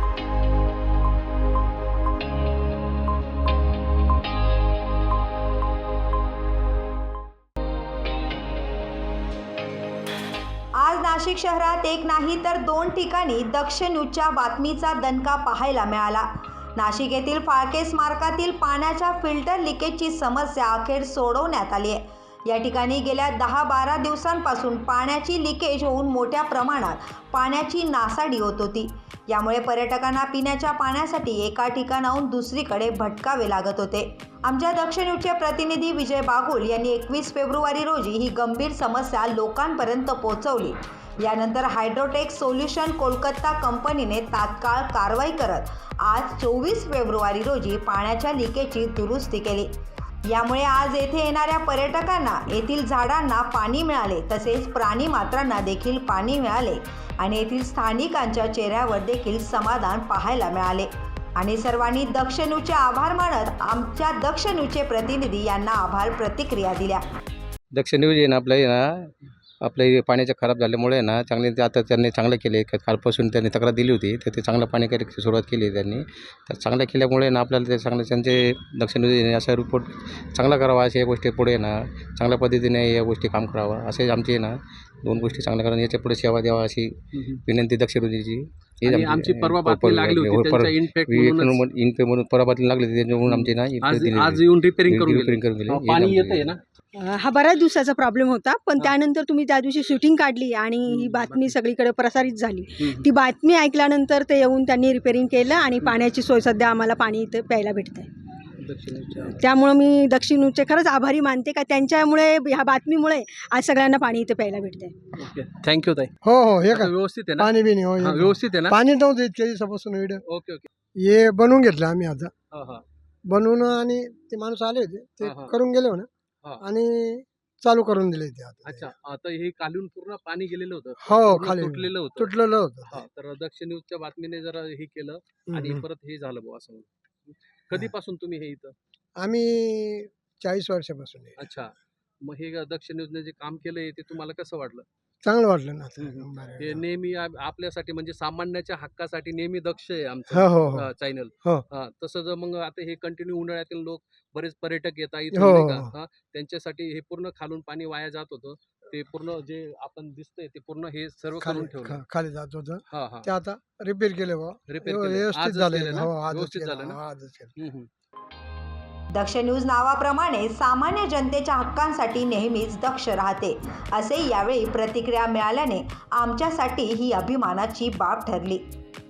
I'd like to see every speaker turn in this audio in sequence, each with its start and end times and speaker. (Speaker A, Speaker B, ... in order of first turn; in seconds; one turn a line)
Speaker A: 10.8-49.7
Speaker A: 50.3-67.0
Speaker B: 67.7-69.1
Speaker B: 69.6-87.0
Speaker B: 87.5-96.5
Speaker C: 88.8-91.6
Speaker C: 93.3-96.6
Speaker D: 97.0-108.1
Speaker C: 100.9-101.5
Speaker C: 102.8-103.1
Speaker C: 108.6-109.4
Speaker D: 109.3-115.0
Speaker C: 115.2-116.1
Speaker E: 116.2-120.2
Speaker C: 116.7-118.8
Speaker C: 120.3-120.7
Speaker E: 121.0-122.3
Speaker C: 122.5-122.8
Speaker E: 123.3-126.1
Speaker C: 125.2-125.5
Speaker E: 126.6-128.9
Speaker C: 128.7-132.3
Speaker E: 131.0-133.0
Speaker C: 132.9-138.8
Speaker E: 135.5-135.8
Speaker E: 139.2-141.5
Speaker C: 141.4-144.9
Speaker E: 145.2-146.8
Speaker C: 146.0-162.0
Speaker E: 150.3-150.9
Speaker E: 155.3-155.9
Speaker E: 161.4-167.6
Speaker C: 162.9-163.3
Speaker C: 164.7-167.0
Speaker C: 167.6-167.9
Speaker A: 169.1-178.6